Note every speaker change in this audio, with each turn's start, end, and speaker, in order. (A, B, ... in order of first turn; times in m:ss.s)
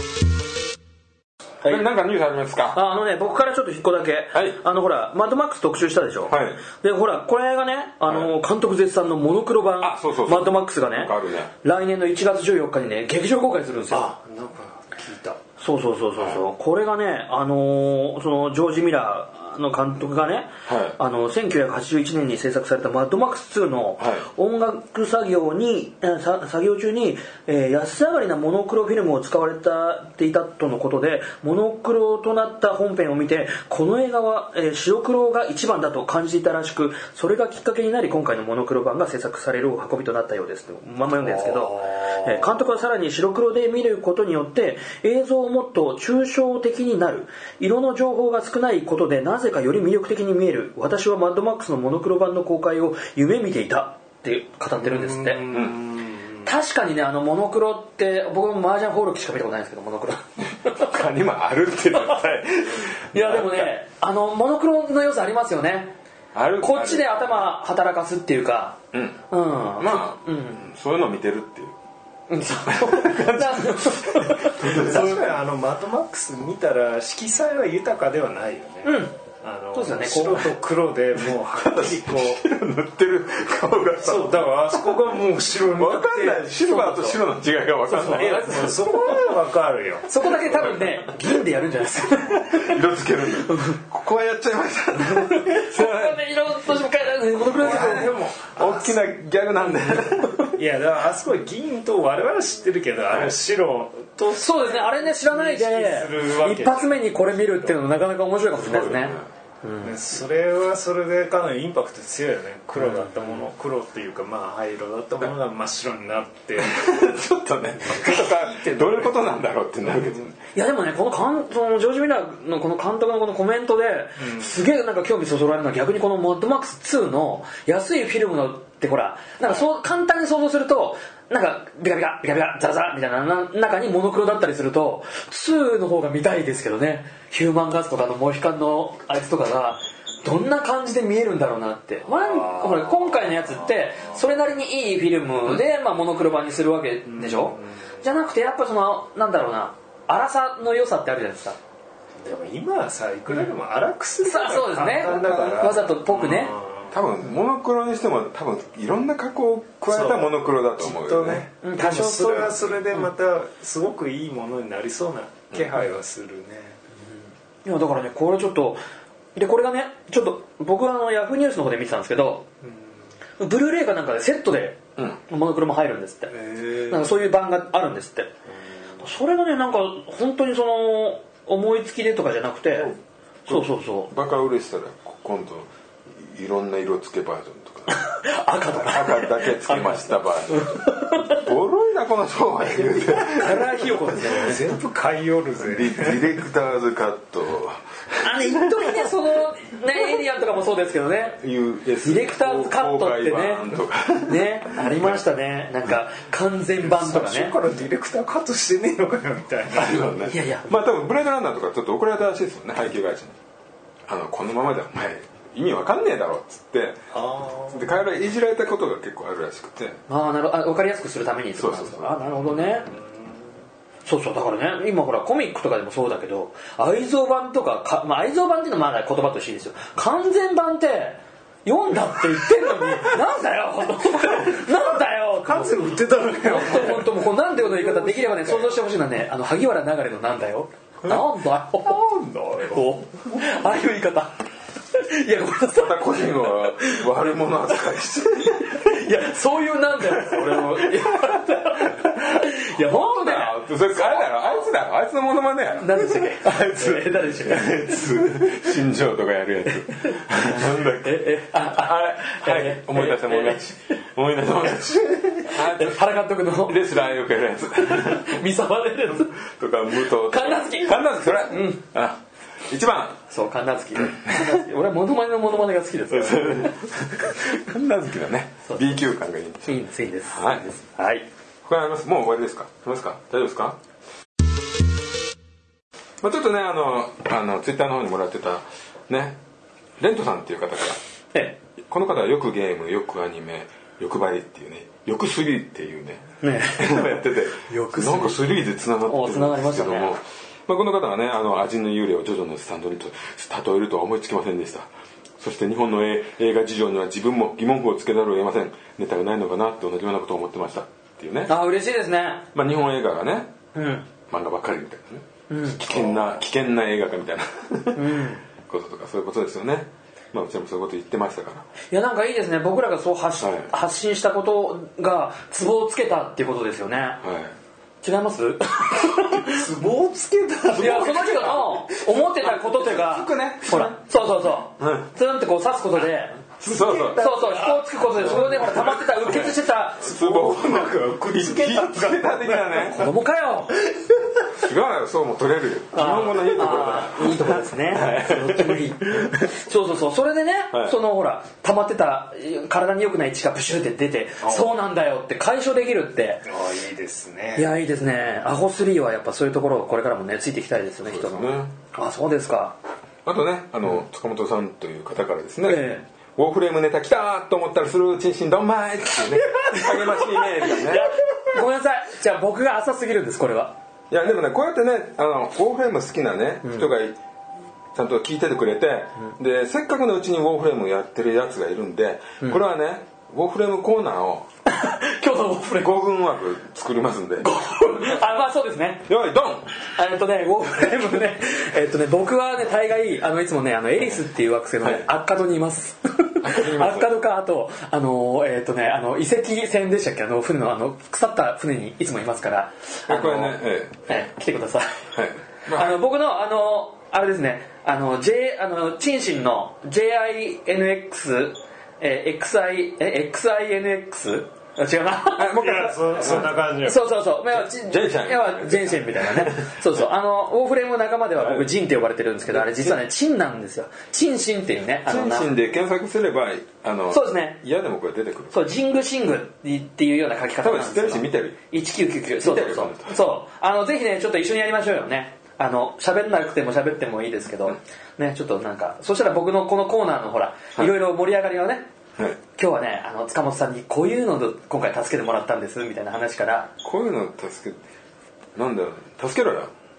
0:01.6-0:02.8 A
0:02.7-0:14.2 B
0:04.3-0:04.6 A
0:06.3-0:06.6 A
0:08.1-0:08.3 A
0:09.8-0:11.5 A
0:13.9-0:15.4 C
0:15.6-0:55.5 B
0:20.7-0:21.0 A
0:24.0-0:24.3 A
0:41.2-0:42.3 C
0:54.8-0:56.5 C
0:55.5-0:55.8 A
0:56.4-1:00.9 B
1:00.6-1:03.7 A
1:01.9-1:02.2 B
1:03.1-1:06.0 B
1:06.3-1:07.5 A
1:06.6-1:08.8 B
1:08.9-1:09.2 A
1:09.3-1:10.7 B
1:09.8-1:11.8 A
1:12.3-1:15.2 B
1:12.7-1:15.3 A
1:14.6-1:22.4 C
1:18.8-1:19.2 B
1:19.7-1:20.6 B
1:21.6-1:25.0 A
1:24.0-1:26.5 C
1:25.6-1:29.0 A
1:26.6-1:27.2 B
1:27.9-1:29.1 B
1:28.0-1:30.1 C
1:30.1-1:32.8 B
1:30.5-1:31.0 A
1:32.4-1:36.2 A
1:33.4-1:33.8 B
1:35.0-1:38.5 B
1:37.5-1:40.5 A
1:37.6-1:38.3 C
1:40.6-1:47.9 C
1:44.3-1:50.0 B
1:48.6-1:49.3 A
1:49.8-1:57.0 C
1:52.8-1:53.4 B
1:56.6-2:00.4 A
1:57.9-1:59.2 C
1:59.8-2:00.2 C
2:00.6-2:31.6 B
2:04.2-2:04.6 C
2:22.1-2:23.7 C
2:27.1-2:27.7 C
2:32.2-2:37.0 C
2:34.2-2:36.6 B
2:35.1-2:35.8 A
2:36.9-2:41.5 A
2:39.9-2:46.8 C
2:41.6-2:42.6 B
2:47.6-2:48.8 B
2:49.4-2:52.5 B
2:52.6-2:52.9 C
2:53.4-2:58.3 B
2:56.3-2:57.2 C
2:59.0-3:02.9 B
3:03.5-3:04.1 B
3:03.5-3:08.0 A
3:07.9-3:11.5 B
3:08.7-3:13.8 A
3:13.1-3:14.6 B
3:14.1-3:16.3 C
3:15.6-3:18.8 A
3:18.2-3:21.4 B
3:21.4-3:25.2 A
3:22.0-3:27.6 B
3:26.8-3:30.2 C
3:29.7-3:33.4 A
3:30.3-3:30.7 B
3:34.1-3:37.0 A
3:37.1-3:37.9 C
3:37.7-3:40.0 A
3:40.1-3:42.9 B
3:41.6-3:42.1 A
3:42.9-3:43.5 C
3:44.0-3:55.8 B
3:54.2-3:58.8 C
3:56.4-4:02.0 B
4:01.8-4:03.4 C
4:02.6-4:04.4 B
4:04.9-4:07.1 B
4:05.7-4:09.1 A
4:08.6-4:14.6 B
4:10.0-4:26.0 A
4:15.8-4:18.5 B
4:20.0-4:24.0 B
4:25.5-4:26.8 B
4:26.6-4:28.4 A
4:27.8-4:29.4 B
4:29.4-4:33.2 A
4:30.0-4:31.8 B
4:33.3-4:36.9 B
4:34.0-4:34.3 A
4:36.1-4:39.8 A
4:38.7-4:39.0 B
4:39.6-4:41.3 B
4:40.3-4:40.6 A
4:41.6-4:43.8 A
4:46.2-4:49.4 A
4:50.0-4:51.0 A
4:51.9-4:56.2 A
4:56.4-4:57.1 B
4:56.8-5:04.9 A
4:57.7-4:58.4 B
4:59.1-5:00.2 B
5:05.4-5:11.5 A
5:11.5-5:12.5 B
5:12.6-5:13.5 A
5:13.7-5:14.1 B
5:14.3-5:21.7 A
5:15.5-5:16.0 B
5:18.0-5:18.4 B
5:21.9-5:27.2 B
5:23.4-5:23.7 A
5:27.2-5:27.6 A
5:28.0-5:29.6 B
5:29.4-5:31.4 C
5:30.7-5:36.4 B
5:30.8-5:34.0 A
5:34.8-5:35.1 A
5:36.6-5:39.0 C
5:36.6-5:37.3 A
5:37.1-5:40.4 B
5:38.3-5:43.0 A
5:40.2-5:42.3 C
5:42.4-5:43.9 B
5:44.6-5:49.3 A
5:45.9-5:56.5 B
5:50.7-5:51.0 A
5:54.4-5:54.7 C
5:56.5-5:57.7 C
5:57.6-6:02.8 B
6:01.0-6:01.8 A
6:03.2-6:11.1 A
6:05.6-6:06.1 B
6:09.6-6:13.8 B
6:14.1-6:17.2 A
6:16.6-6:16.9 B
6:17.9-6:24.5 A
6:24.7-6:25.9 B
6:25.8-6:27.5 A
6:27.4-6:29.1 B
6:29.1-6:29.7 A
6:30.0-6:45.1 B
6:34.8-6:35.1 A
6:36.4-6:37.1 A
6:43.1-6:44.2 A
6:45.1-6:46.0 A
6:45.7-7:05.6 B
6:55.4-6:56.6 A
6:55.5-6:57.1 C
6:57.5-7:00.0 A
7:01.4-7:01.7 A
7:02.5-7:03.0 A
7:05.1-7:08.6 A
7:07.1-7:07.6 B
7:08.5-7:21.9 B
7:10.6-7:11.6 A
7:12.4-7:13.2 A
7:22.5-7:26.7 B
7:26.8-7:27.8 A
7:28.6-7:29.7 A